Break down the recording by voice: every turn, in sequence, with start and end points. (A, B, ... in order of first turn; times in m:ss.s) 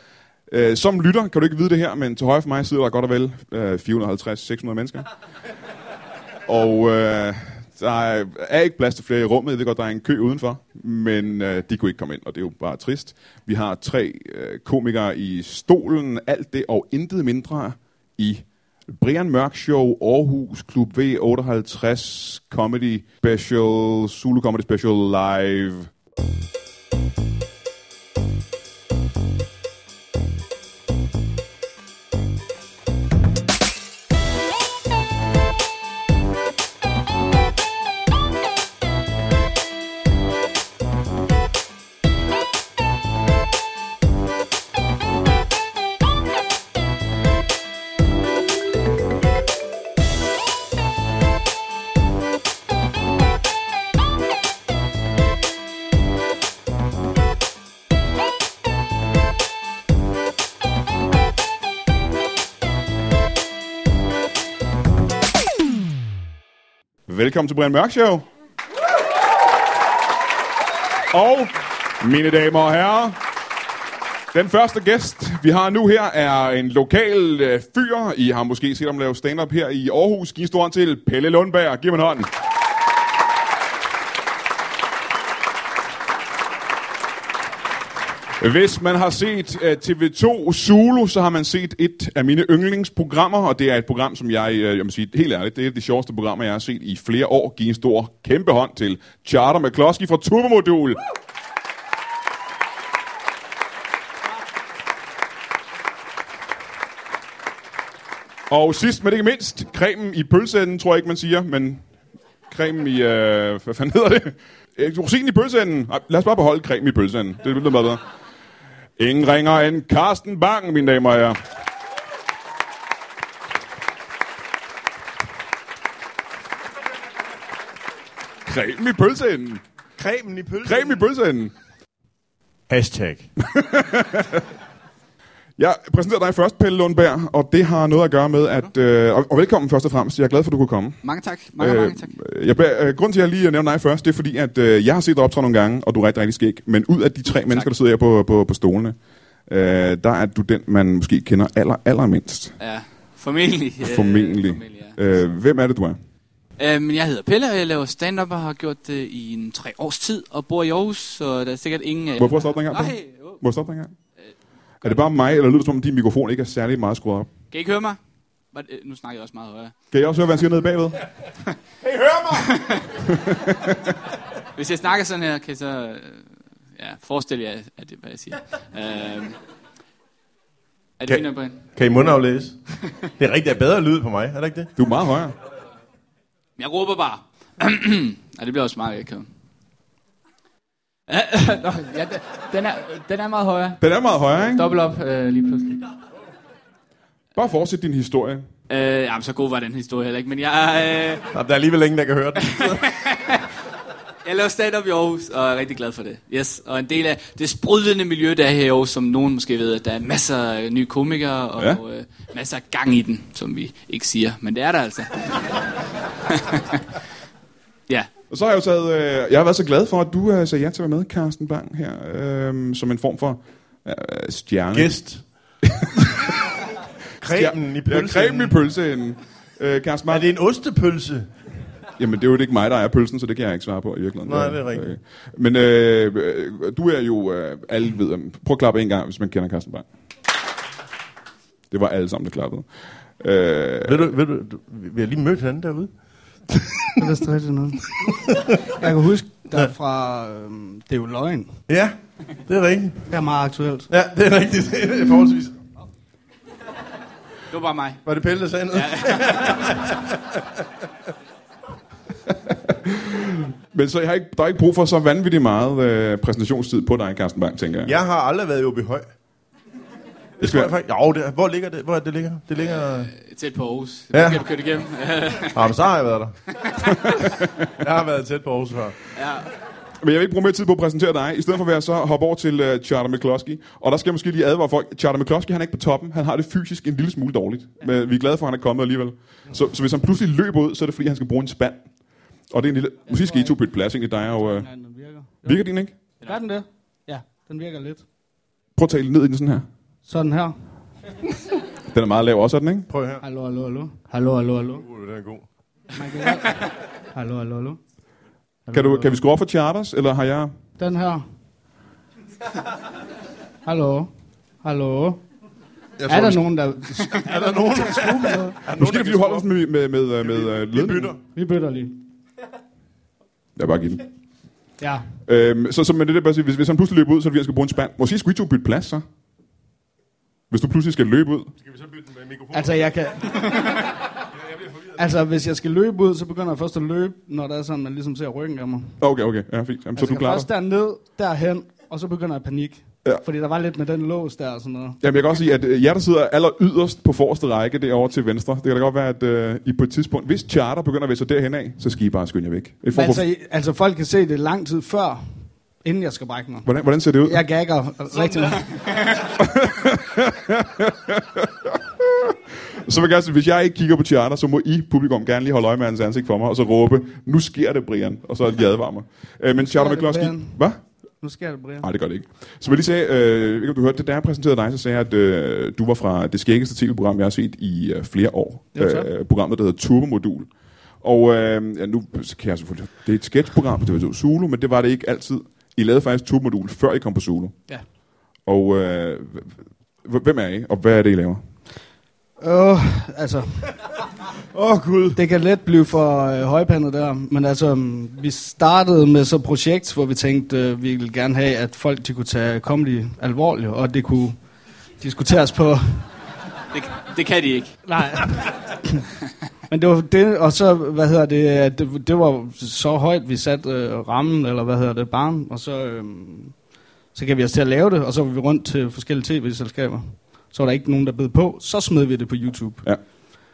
0:00.5-0:05.1 A
0:06.5-0:25.9 A
1:07.1-1:08.2 A
1:11.1-1:13.2 A
1:14.3-1:22.3 A
1:28.4-1:41.0 A
1:48.5-1:51.8 A
1:52.5-1:58.0 A
1:59.0-2:01.4 A
2:08.5-2:09.6 A
2:10.0-2:11.0 B
2:10.6-2:11.5 A
2:12.7-2:13.3 B
2:13.4-2:14.4 A
2:15.6-2:21.0 A
2:21.0-2:22.2 C
2:21.6-2:32.6 A
2:32.6-2:35.0 C
2:33.8-2:36.0 A
2:36.6-2:43.4 C
2:42.2-2:44.0 A
2:44.8-2:47.3 A
2:47.5-2:48.0 C
2:48.5-2:49.7 C
2:49.9-2:51.0 A
2:52.1-2:52.9 C
2:53.0-2:53.9 A
2:54.6-2:59.4 C
3:01.0-3:01.6 C
3:01.1-3:02.6 B
3:03.2-3:04.7 B
3:04.8-3:05.3 A
3:06.6-3:09.3 C
3:11.1-3:13.8 C
3:13.8-3:14.6 A
3:14.4-3:15.9 C
3:17.4-3:18.5 A
3:18.7-3:21.3 C
3:21.3-3:22.8 B
3:22.4-3:23.5 C
3:24.2-3:35.4 C
3:36.3-3:36.8 C
3:38.3-3:45.0 A
3:44.7-3:45.2 B
3:45.6-3:46.3 A
3:47.2-3:48.6 B
3:47.2-3:50.3 A
3:50.1-3:51.3 B
3:52.0-3:59.8 A
3:54.3-3:54.9 B
4:01.7-4:02.7 A
4:03.2-4:04.1 A
4:03.9-4:05.9 B
4:06.5-4:07.1 B
4:07.0-4:11.5 D
4:08.0-4:08.5 B
4:11.7-4:13.1 B
4:13.1-4:13.9 D
4:13.9-4:15.6 B
4:17.5-4:18.0 C
4:18.0-4:20.7 B
4:18.7-4:19.8 C
4:22.7-4:28.0 A
4:27.8-4:29.1 B
4:30.4-4:33.1 B
4:30.4-4:30.7 A
4:32.8-4:35.8 C
4:34.1-4:34.4 B
4:35.5-4:36.4 B
4:36.6-4:37.0 C
4:37.7-4:39.0 B
4:39.2-4:39.5 C
4:40.0-4:51.9 A
4:52.5-4:54.7 A
4:53.1-4:53.6 D
4:54.4-4:55.6 D
4:55.4-4:56.0 A
4:56.2-4:58.0 D
4:58.8-4:59.6 A
5:00.1-5:00.6 D
5:01.9-5:02.9 A
5:02.9-5:03.2 B
5:03.2-5:04.8 D
5:04.8-5:05.5 B
5:05.9-5:07.8 D
5:08.7-5:09.2 B
5:08.7-5:10.5 A
5:10.8-5:11.2 D
5:13.6-5:14.1 D
5:14.6-5:15.2 D
5:16.0-5:19.5 B
5:16.1-5:18.6 D
5:18.8-5:21.1 A
5:20.2-5:21.2 B
5:21.3-5:22.0 D
5:23.6-5:24.0 A
5:24.8-5:25.1 D
5:25.2-5:29.0 A
5:30.5-5:31.5 A
5:31.6-5:32.9 B
5:32.5-5:33.9 D
5:34.9-5:39.0 D
5:39.0-5:40.5 A
5:40.0-5:45.0 D
5:45.0-5:53.2 A
5:52.9-5:56.7 D
5:56.6-5:57.4 A
5:57.2-5:58.7 D
5:58.5-5:59.0 C
5:59.4-6:10.8 A
6:09.6-6:11.9 D
6:11.8-6:27.6 A
6:18.8-6:19.1 D
6:28.4-6:31.4 A
6:32.4-6:33.9 D
6:34.5-6:35.2 B
6:35.2-6:44.4 D
6:45.0-6:46.1 D
6:46.7-6:47.8 C
6:47.9-6:49.1 D
6:49.7-7:02.8 D